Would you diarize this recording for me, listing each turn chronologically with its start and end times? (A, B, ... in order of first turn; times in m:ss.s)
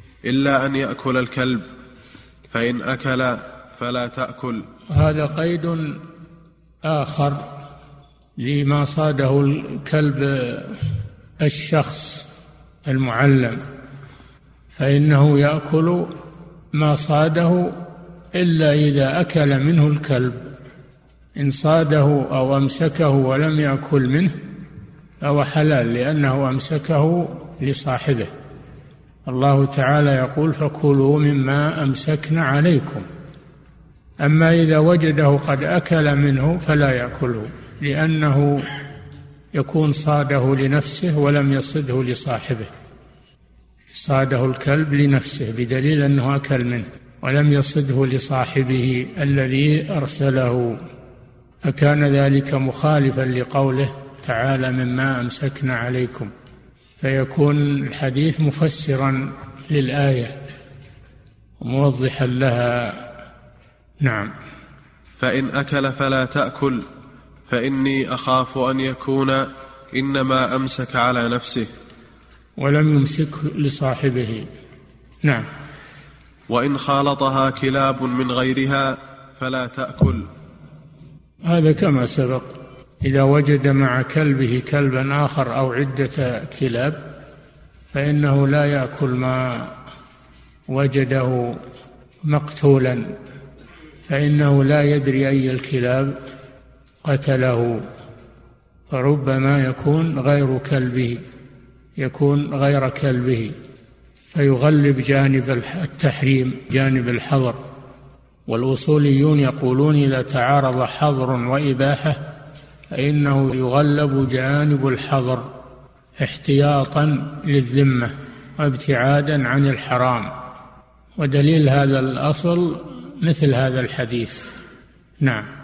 0:00.3-0:01.6 A
0:02.5-0:04.6 A
0:04.9-0:06.0 B
0:06.8-0:07.5 B
0:08.4-0:10.8 B
0:11.4-0:12.3 B
0:12.9-0:13.6 B
0:14.7-0:16.1 B
0:16.7-0:17.8 B
0:18.3-0:20.5 B
0:21.4-0:24.3 B
0:25.2-0:28.3 B
0:29.3-0:33.0 B
0:34.2-0:38.6 B
0:39.5-0:42.7 B
0:43.9-0:50.8 B
0:51.6-0:56.3 B
0:57.0-1:00.3 B
1:01.6-1:03.1 B
1:04.0-1:04.3 B
1:05.2-1:06.8 A
1:07.5-1:11.7 A
1:12.6-1:14.4 B
1:16.5-1:20.3 A
1:21.4-1:27.0 B
1:27.9-1:29.7 B
1:30.7-1:31.6 B
1:32.2-1:33.0 B
1:34.1-1:36.1 B
1:37.0-1:37.8 B
1:38.9-1:41.2 B
1:42.0-1:43.5 B
1:44.3-1:47.6 B
1:48.5-1:52.2 B
1:52.9-1:55.5 B
1:56.2-2:00.3 B
2:01.2-2:04.5 B